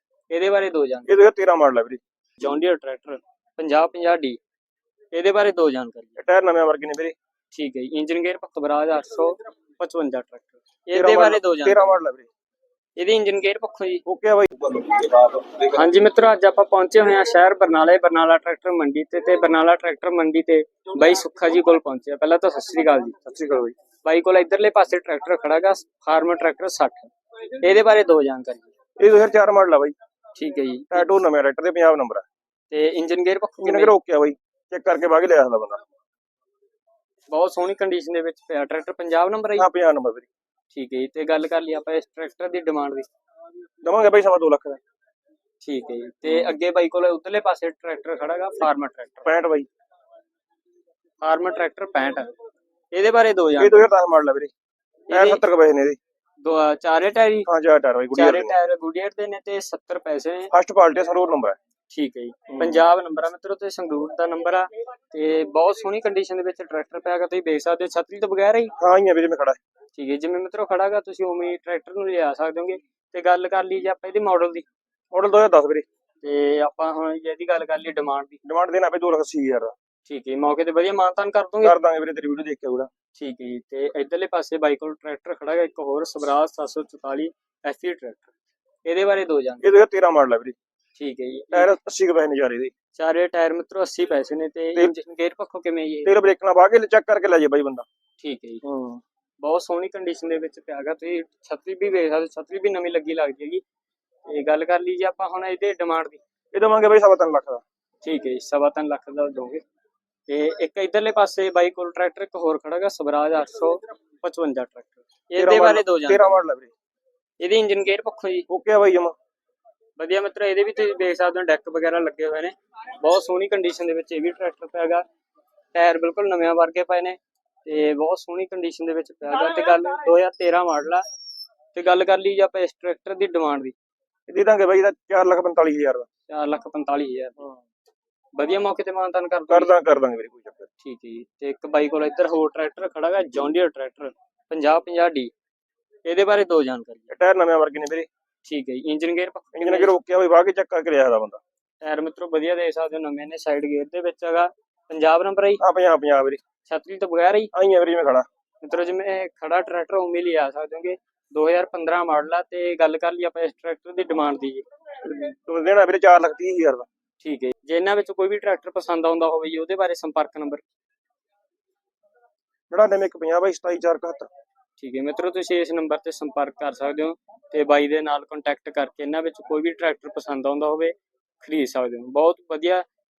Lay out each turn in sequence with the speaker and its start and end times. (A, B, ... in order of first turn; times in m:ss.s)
0:00.3-0:01.2 A
0:01.1-0:02.0 B
0:02.4-0:04.4 A
0:05.1-0:06.2 A
0:06.2-0:07.2 B
0:07.5-0:12.0 A
0:10.9-0:12.3 B
0:13.0-0:14.0 A
0:14.1-0:15.3 B
0:15.6-0:23.2 A
0:23.2-0:23.8 B
0:24.0-0:28.7 A
0:29.0-0:30.0 B
0:30.4-0:31.1 A
0:30.9-0:32.3 B
0:32.7-0:33.9 A
0:33.6-0:35.8 B
0:37.3-0:39.7 A
0:39.6-0:40.3 B
0:40.7-0:43.1 A
0:43.8-0:44.8 B
0:45.6-0:49.2 A
0:46.3-0:46.6 B
0:49.2-0:49.7 B
0:51.2-0:52.3 A
0:52.9-0:53.9 A
0:53.6-0:54.5 B
0:55.1-0:55.4 A
0:55.1-0:56.0 B
0:56.4-0:57.5 A
0:57.5-0:58.6 B
0:58.2-1:00.5 A
1:00.5-1:01.6 B
1:01.9-1:08.7 A
1:02.5-1:02.8 B
1:08.8-1:09.6 B
1:09.9-1:14.7 A
1:15.1-1:15.9 B
1:16.2-1:18.4 A
1:18.4-1:19.8 B
1:20.1-1:21.8 A
1:21.6-1:22.9 B
1:23.2-1:28.3 A
1:28.8-1:29.7 A
1:29.6-1:30.6 B
1:31.0-1:31.7 A
1:31.5-1:32.7 B
1:33.0-1:36.2 A
1:36.1-1:37.9 B
1:38.2-1:38.6 A
1:38.6-1:39.0 B
1:39.4-1:43.6 A
1:44.3-1:46.2 A
1:46.5-1:47.6 B
1:48.0-1:49.6 A
1:50.3-1:56.4 A
1:55.4-1:56.7 B
1:57.4-1:58.5 A
1:58.5-1:59.2 B
2:00.0-2:05.0 A
2:05.7-2:11.0 A
2:11.7-2:13.8 A
2:14.3-2:16.1 B
2:16.3-2:17.4 A
2:18.4-2:19.7 A
2:19.5-2:20.7 B
2:20.8-2:25.3 A
2:26.0-2:27.1 A
2:27.1-2:28.1 B
2:28.5-2:29.9 A
2:29.5-2:31.4 B
2:31.8-2:35.6 A
2:35.6-2:36.4 B
2:36.7-2:37.5 A
2:37.5-2:38.3 B
2:38.6-2:44.6 A
2:45.0-2:46.9 B
2:47.2-2:50.6 A
2:52.7-2:54.3 B
2:54.8-3:02.9 A